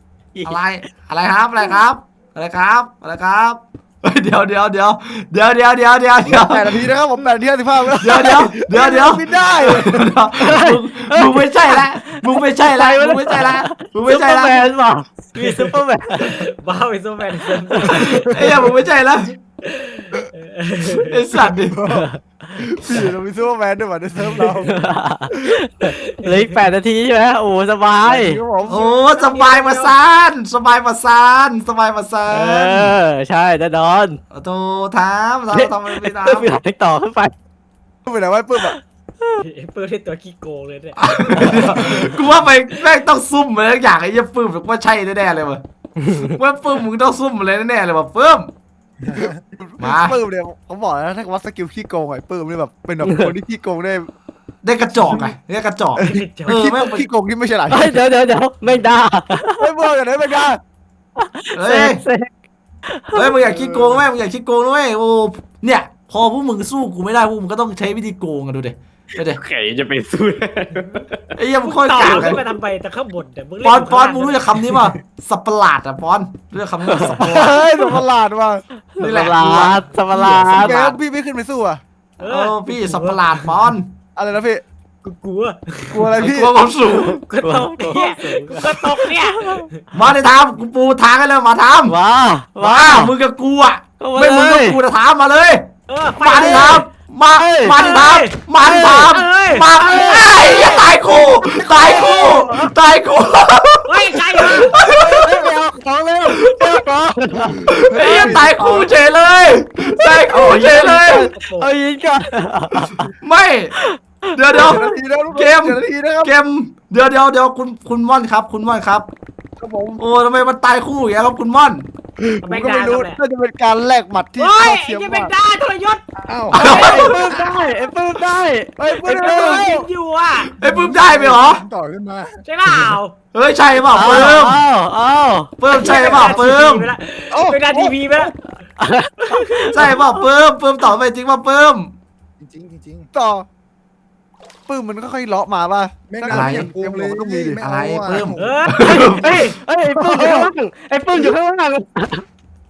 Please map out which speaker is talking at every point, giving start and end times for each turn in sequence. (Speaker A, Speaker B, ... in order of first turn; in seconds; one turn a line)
Speaker A: 0.3-0.6
Speaker B: 0.4-6.8
Speaker C: 6.2-10.1
Speaker B: 8.0-14.7
Speaker A: 10.4-16.4
Speaker D: 15.3-18.7
Speaker A: 17.4-18.3
Speaker B: 18.1-19.3
Speaker D: 19.6-21.5
Speaker B: 21.0-21.8
Speaker C: 21.7-24.7
Speaker A: 21.9-22.2
Speaker A: 24.5-28.4
Speaker C: 25.3-25.5
Speaker D: 25.9-26.6
Speaker C: 28.0-28.8
Speaker D: 28.6-29.9
Speaker B: 28.6-33.0
Speaker A: 32.3-34.2
Speaker B: 34.3-36.5
Speaker A: 35.5-37.3
Speaker C: 38.0-38.8
Speaker A: 38.6-39.4
Speaker D: 39.4-42.2
Speaker B: 41.0-45.6
Speaker B: 46.1-48.5
Speaker E: 49.0-49.3
Speaker C: 49.1-54.1
Speaker B: 49.8-50.2
Speaker B: 54.6-57.0
Speaker C: 56.0-58.0
Speaker D: 56.0-56.6
Speaker A: 57.7-59.7
Speaker C: 59.6-60.6
Speaker A: 61.2-62.3
Speaker B: 61.5-62.0
Speaker A: 62.9-63.4
Speaker B: 63.1-69.4
Speaker C: 63.4-64.0
Speaker A: 69.2-71.3
Speaker B: 71.3-72.4
Speaker D: 71.6-75.0
Speaker B: 73.6-77.6
Speaker A: 76.8-77.2
Speaker C: 77.2-78.6
Speaker A: 78.9-80.9
Speaker B: 79.0-79.9
Speaker C: 80.1-81.8
Speaker B: 80.4-80.9
Speaker B: 82.2-83.9
Speaker D: 82.2-83.8
Speaker C: 84.1-84.6
Speaker D: 85.0-86.2
Speaker C: 85.9-86.5
Speaker B: 86.2-87.2
Speaker D: 86.8-89.9
Speaker A: 87.4-89.7
Speaker B: 89.9-92.0
Speaker A: 91.8-93.1
Speaker B: 92.6-105.4
Speaker A: 94.0-94.8
Speaker D: 95.9-96.9
Speaker A: 97.4-97.8
Speaker D: 97.7-101.0
Speaker A: 98.6-99.1
Speaker C: 101.2-102.4
Speaker A: 101.5-102.7
Speaker D: 103.8-104.8
Speaker A: 104.9-108.4
Speaker B: 106.3-106.8
Speaker C: 107.4-108.9
Speaker B: 107.7-111.3
Speaker A: 110.0-113.1
Speaker C: 110.3-111.1
Speaker D: 111.3-111.7
Speaker B: 113.2-113.7
Speaker A: 113.7-114.9
Speaker B: 114.3-119.1
Speaker C: 114.5-116.3
Speaker C: 119.6-120.0
Speaker B: 120.0-121.9
Speaker C: 122.2-125.3
Speaker D: 122.4-123.2
Speaker D: 124.4-126.0
Speaker E: 126.2-127.5
Speaker B: 126.5-127.2
Speaker A: 126.6-129.7
Speaker C: 128.8-129.9
Speaker D: 129.1-130.5
Speaker B: 130.6-131.6
Speaker E: 130.6-132.3
Speaker D: 132.4-133.1
Speaker B: 133.3-134.6
Speaker A: 133.9-135.6
Speaker B: 135.6-136.9
Speaker D: 135.7-138.3
Speaker C: 137.3-138.3
Speaker A: 138.8-139.8
Speaker D: 139.2-140.0
Speaker B: 139.7-141.9
Speaker E: 142.4-143.1
Speaker C: 143.1-143.4
Speaker C: 144.7-147.6
Speaker E: 146.1-149.0
Speaker B: 146.3-146.7
Speaker B: 147.6-149.4
Speaker D: 148.4-149.6
Speaker A: 148.8-152.2
Speaker C: 149.9-150.5